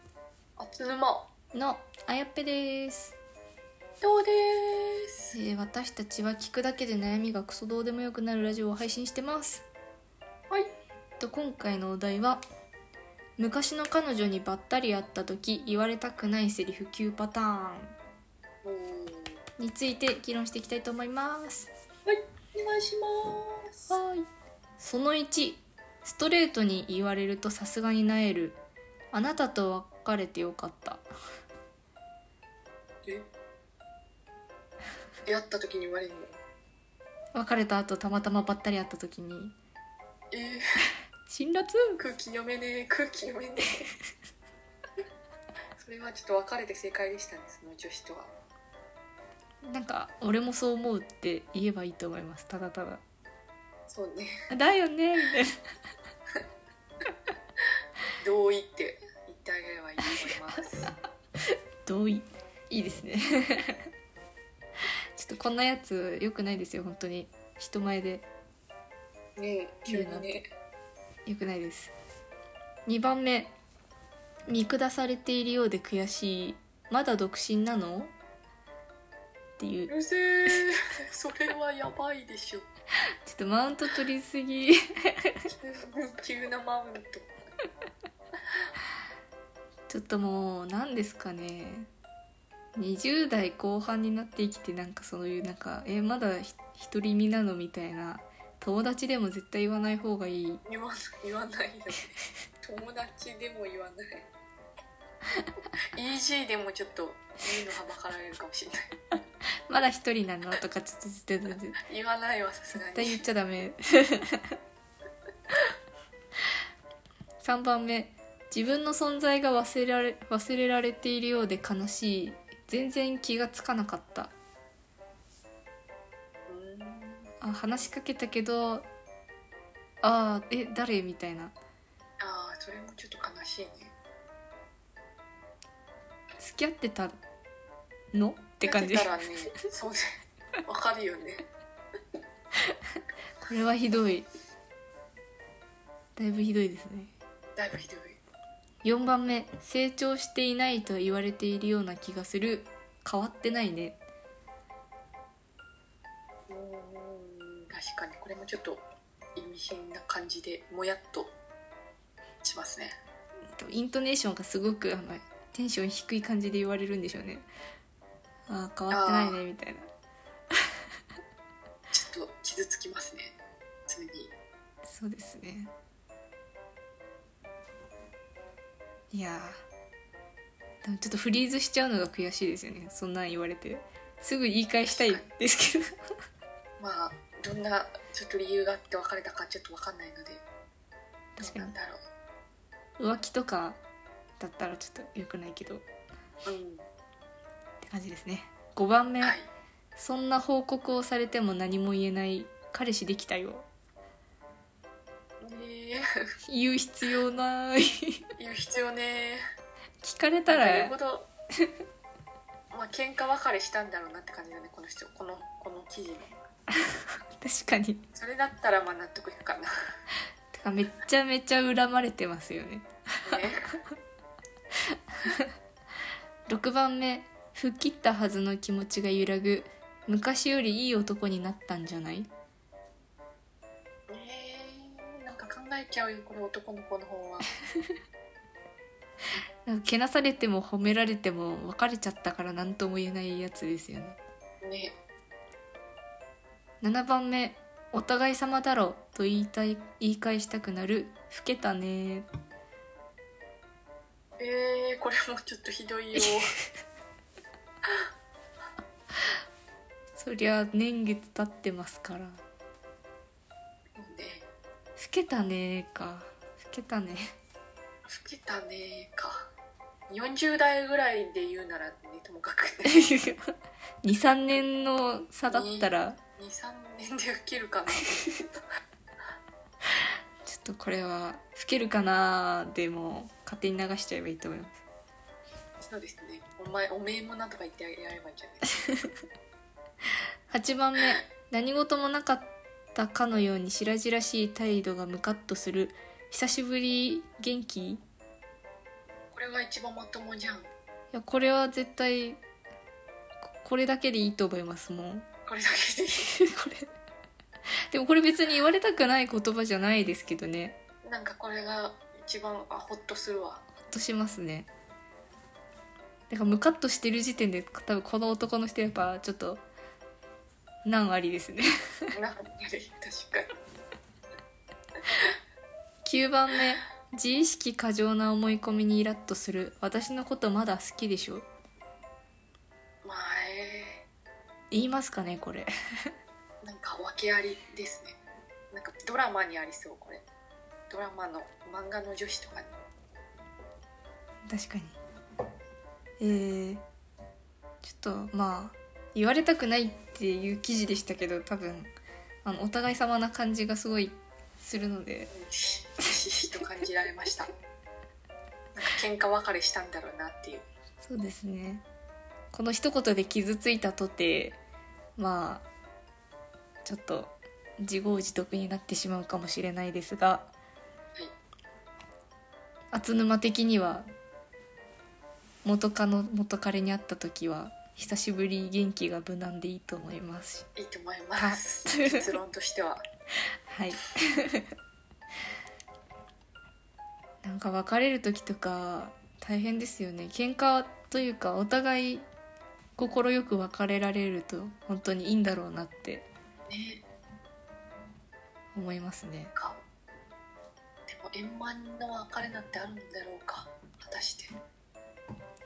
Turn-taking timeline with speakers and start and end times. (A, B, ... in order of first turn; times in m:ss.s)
0:00.6-0:01.3 A
0:01.5-0:03.2 B
0:04.0-0:05.4 A
0:05.3-0:09.7 B
0:11.2-0:12.4 B
0:13.4-0:17.9 B
0:18.6-0:19.4 A
0:19.6-0:21.7 B
0:22.1-0:24.0 A
0:23.9-0:24.3 B
0:24.8-0:28.6 B
0:29.1-0:31.0 B
0:35.3-0:36.4 A
0:37.4-0:39.6 B
0:40.3-0:40.6 A
0:41.3-0:42.0 B
0:42.0-0:43.9 A
0:45.8-0:48.3 A
0:49.6-0:53.0 B
0:53.9-0:54.4 A
0:54.5-0:55.6 B
0:58.2-1:00.9 A
1:01.8-1:03.9 B
1:05.2-1:08.3 B
1:09.4-1:10.5 A
1:09.9-1:10.3 B
1:11.3-1:11.9 B
1:12.9-1:13.5 B
1:14.5-1:18.1 B
1:19.6-1:19.9 B
1:19.9-1:22.7 A
1:23.2-1:25.5 B
1:25.5-1:27.5 A
1:29.9-1:31.9 B
1:32.8-1:40.6 B
1:40.7-1:44.3 A
1:45.9-1:48.9 A
1:49.7-1:51.8 B
1:51.9-1:53.2 A
1:52.8-1:54.6 B
1:57.4-2:04.3 B
2:06.5-2:07.3 A
2:07.4-2:08.9 B
2:10.0-2:11.5 B
2:12.2-2:14.0 A
2:16.4-2:17.2 B
2:18.1-2:19.1 B
2:18.6-2:21.5 A
2:23.4-2:24.3 B
2:26.2-2:27.1 B
2:27.6-2:28.2 A
2:28.8-2:34.0 B
2:36.5-2:41.4 A
2:42.4-2:43.0 A
2:43.6-2:47.5 B
2:48.5-2:49.9 B
2:48.9-2:49.4 A
2:51.9-2:53.4 A
2:53.9-2:54.3 A
2:54.8-2:55.7 B
2:59.1-2:59.6 B
3:00.8-3:05.9 B
3:04.9-3:05.3 A
3:06.8-3:10.4 A
3:11.4-3:11.7 B
3:11.4-3:12.0 A
3:13.0-3:13.8 B
3:14.4-3:15.8 B
3:16.4-3:16.9 A
3:17.8-3:19.4 B
3:19.2-3:19.5 A
3:20.0-3:23.7 B
3:25.4-3:26.0 A
3:26.5-3:28.3 B
3:28.4-3:29.4 A
3:30.0-3:30.9 B
3:30.5-3:31.3 A
3:32.7-3:36.4 A
3:36.8-3:38.0 B
3:38.2-3:39.7 A
3:40.5-3:43.4 B
3:43.2-3:43.8 A
3:44.9-3:45.5 B
3:46.5-3:52.3 B
3:54.1-3:57.5 A
3:59.6-4:04.2 B
4:04.6-4:05.0 A
4:06.8-4:12.3 B
4:14.4-4:16.5 A
4:20.2-4:22.4 B
4:24.0-4:24.5 A
4:25.0-4:27.3 B
4:28.1-4:29.5 A
4:30.1-4:33.1 A
4:32.9-4:33.5 B
4:34.0-4:36.2 B
4:35.5-4:38.4 A
4:40.4-4:44.8 B
4:45.8-4:48.7 A
4:50.5-4:58.0 B
4:59.3-5:00.7 A
5:01.1-5:02.4 B
5:03.5-5:05.3 B
5:05.5-5:06.4 A
5:06.4-5:06.9 B
5:07.9-5:10.8 B
5:11.0-5:13.6 A
5:13.8-5:14.7 B
5:16.3-5:19.6 B
5:20.8-5:22.1 B
5:22.1-5:23.5 A
5:26.0-5:31.5 B
5:33.0-5:34.0 A
5:34.7-5:35.7 B
5:36.6-5:38.2 A
5:38.7-5:40.2 A
5:40.9-5:42.7 A
5:44.5-5:45.0 B
5:46.2-5:46.8 B
5:47.8-5:51.9 B
5:52.4-5:55.3 B
5:55.3-5:57.5 A
5:58.8-6:00.7 A
6:01.0-6:01.8 B
6:02.5-6:04.6 B
6:05.2-6:05.7 B
6:06.8-6:10.5 B
6:12.9-6:14.1 B
6:15.6-6:20.7 B
6:20.8-6:23.0 A
6:21.4-6:22.2 B
6:23.7-6:24.7 B
6:27.4-6:32.2 B
6:33.0-6:36.3 B
6:36.7-6:37.0 A
6:38.7-6:39.5 B
6:39.6-6:39.8 A
6:41.1-6:44.5 A